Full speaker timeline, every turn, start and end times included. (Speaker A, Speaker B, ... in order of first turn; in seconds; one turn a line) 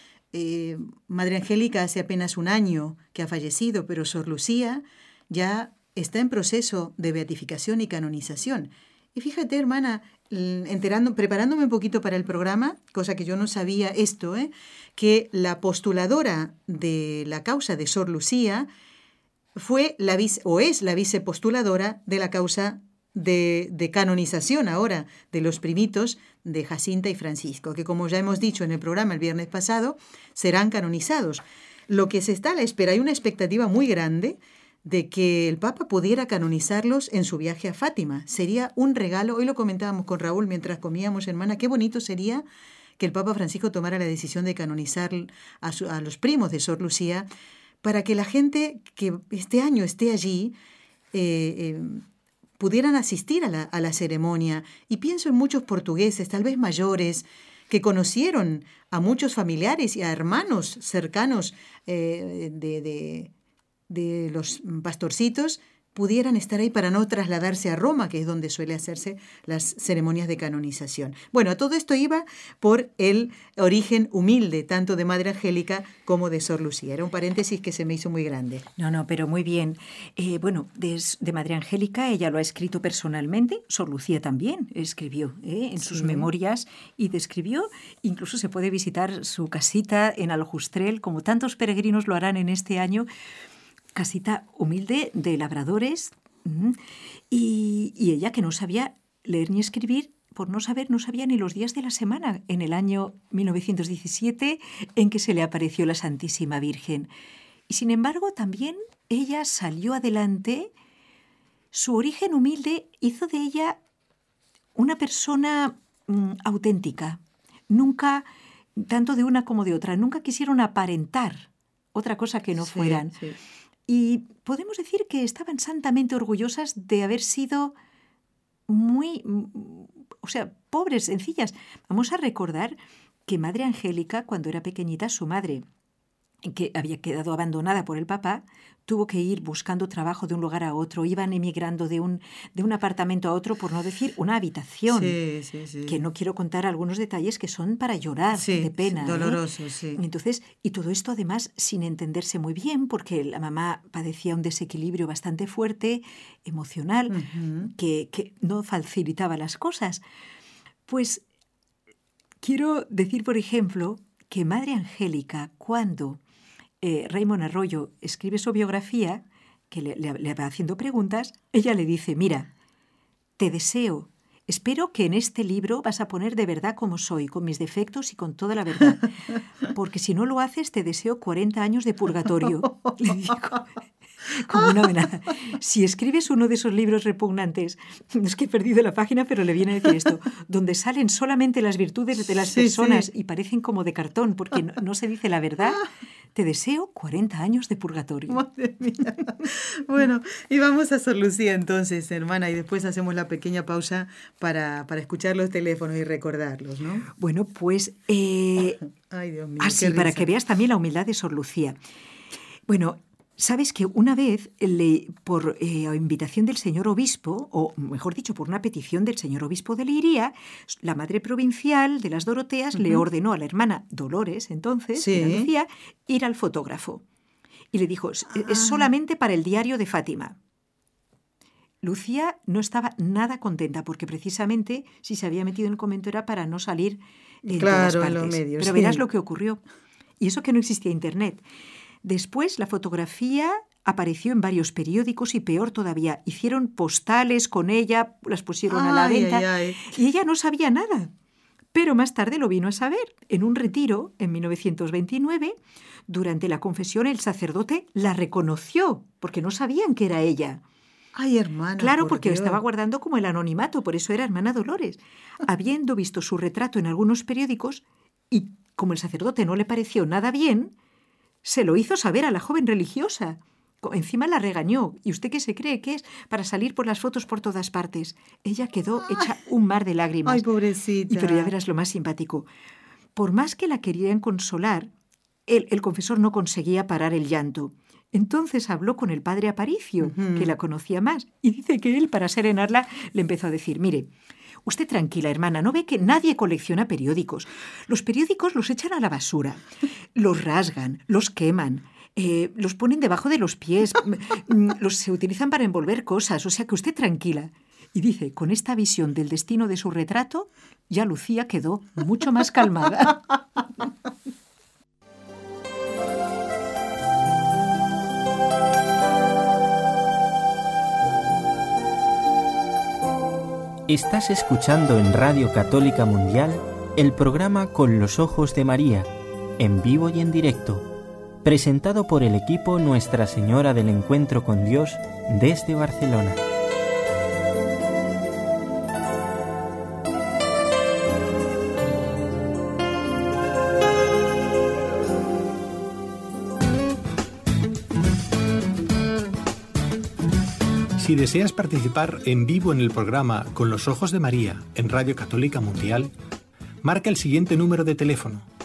Speaker A: 0.3-18.7
Speaker A: 19.6-42.5
Speaker A: 43.0-47.3
Speaker A: 47.8-50.5
Speaker A: 51.1-52.0
Speaker A: 52.6-63.3
Speaker A: 63.9-78.7
Speaker B: 78.8-93.1
Speaker A: 85.8-86.3
Speaker B: 93.9-96.8
Speaker B: 97.3-107.1
Speaker B: 107.7-110.7
Speaker B: 111.7-113.8
Speaker B: 114.8-123.2
Speaker A: 122.6-123.4
Speaker B: 123.9-127.7
Speaker B: 128.7-135.6
Speaker B: 136.4-145.2
Speaker A: 144.9-146.0
Speaker B: 145.8-149.4
Speaker A: 148.3-150.0
Speaker B: 149.9-157.2
Speaker A: 157.1-157.7
Speaker B: 157.7-160.0
Speaker B: 160.9-161.2
Speaker B: 162.4-166.2
Speaker B: 166.8-172.5
Speaker B: 173.4-179.1
Speaker B: 179.7-183.7
Speaker B: 184.2-198.4
Speaker A: 192.5-193.1
Speaker A: 198.3-207.1
Speaker B: 207.2-208.8
Speaker A: 209.1-210.3
Speaker B: 209.6-211.8
Speaker B: 212.7-227.0
Speaker A: 222.8-223.0
Speaker A: 224.9-225.5
Speaker B: 227.7-230.4
Speaker A: 228.5-228.9
Speaker B: 231.8-239.6
Speaker A: 237.4-239.0
Speaker B: 240.2-241.4
Speaker B: 242.0-251.1
Speaker A: 248.7-249.9
Speaker B: 251.7-255.5
Speaker B: 256.1-260.6
Speaker A: 261.1-262.6
Speaker B: 261.8-270.7
Speaker B: 271.4-280.4
Speaker A: 280.2-281.5
Speaker B: 281.1-282.5
Speaker B: 283.1-284.9
Speaker B: 285.5-294.1
Speaker A: 290.0-290.5
Speaker B: 294.6-299.6
Speaker B: 300.1-313.2
Speaker C: 323.9-329.1
Speaker C: 329.6-330.9
Speaker C: 331.4-336.4
Speaker D: 351.0-356.1
Speaker D: 356.8-358.4